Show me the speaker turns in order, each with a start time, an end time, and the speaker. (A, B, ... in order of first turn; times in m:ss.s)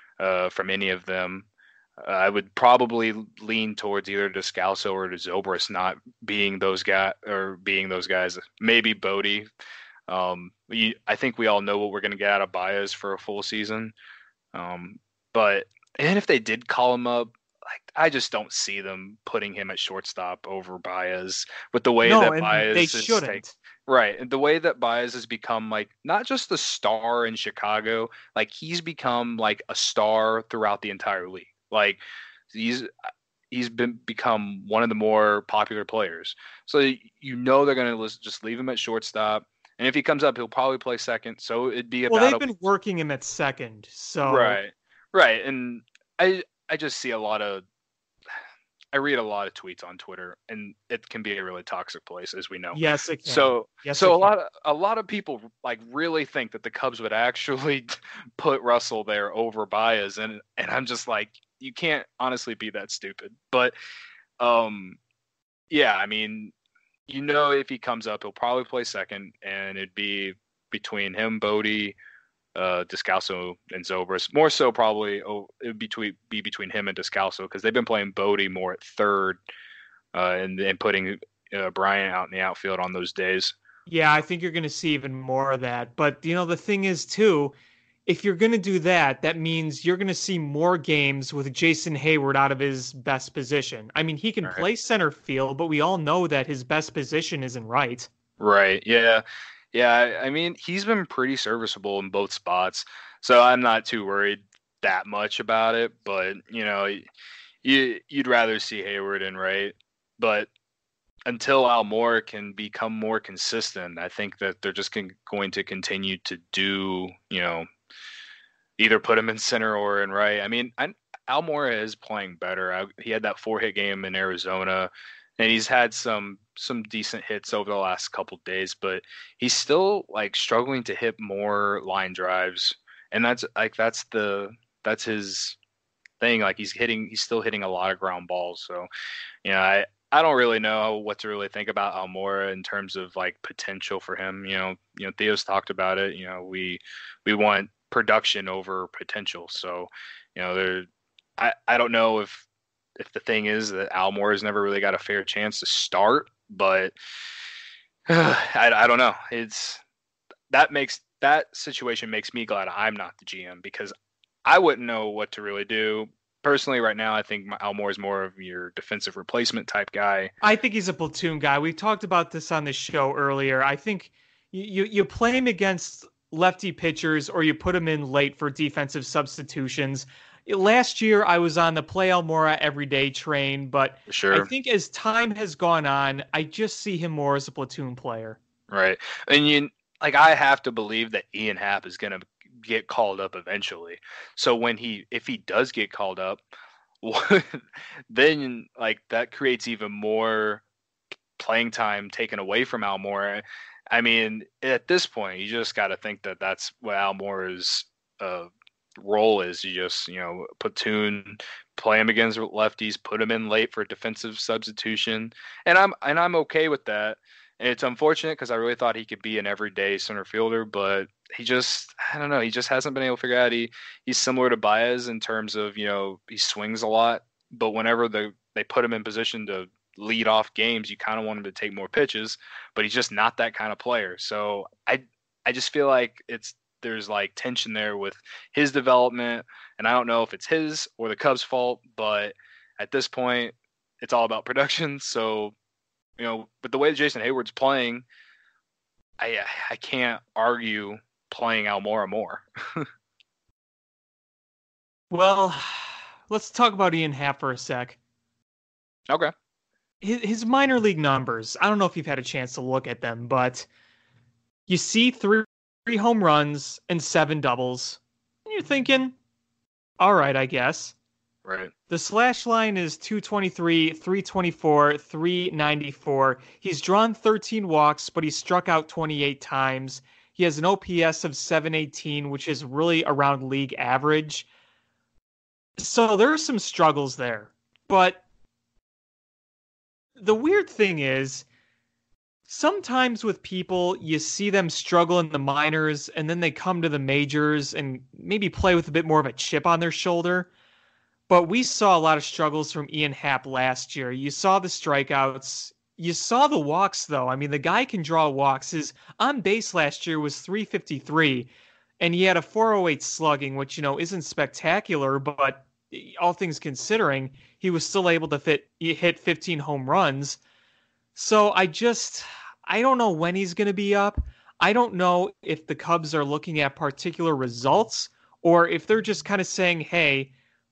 0:00.2-0:01.5 A
0:02.0-0:09.5 A
0:10.1-0:13.9 A
0:14.5-0:32.0 A
0:22.0-0:23.5 B
0:32.5-0:32.9 A
0:33.5-0:42.4 A
0:42.1-0:44.6 B
0:44.2-0:47.6 A
0:48.9-1:03.7 A
0:52.7-0:54.3 B
1:04.4-1:05.0 A
1:05.7-1:06.5 A
1:07.1-1:12.0 A
1:12.5-1:19.4 A
1:20.1-1:23.5 A
1:23.9-1:27.5 B
1:28.0-1:38.1 B
1:38.4-1:47.0 A
1:47.6-1:50.5 A
1:51.3-1:57.7 A
1:58.8-2:15.6 A
2:16.2-2:18.9 A
2:19.4-2:30.8 A
2:31.4-2:32.4 A
2:33.0-2:36.9 A
2:38.1-2:39.8 A
2:40.5-2:43.9 A
2:44.4-2:50.3 A
2:50.4-3:08.4 B
3:04.1-3:04.5 A
3:08.7-3:16.4 A
3:17.0-3:20.6 A
3:21.4-4:05.5 A
4:06.2-4:08.0 A
4:09.2-4:12.9 A
4:15.1-4:18.0 B
4:20.0-4:23.7 B
4:24.7-4:29.1 B
4:30.0-4:30.9 B
4:31.4-4:31.7 A
4:31.9-4:44.5 B
4:45.8-4:48.2 B
4:50.2-4:51.4 B
4:52.5-5:00.5 B
5:01.3-5:11.5 B
5:12.0-5:20.4 B
5:21.1-5:30.3 B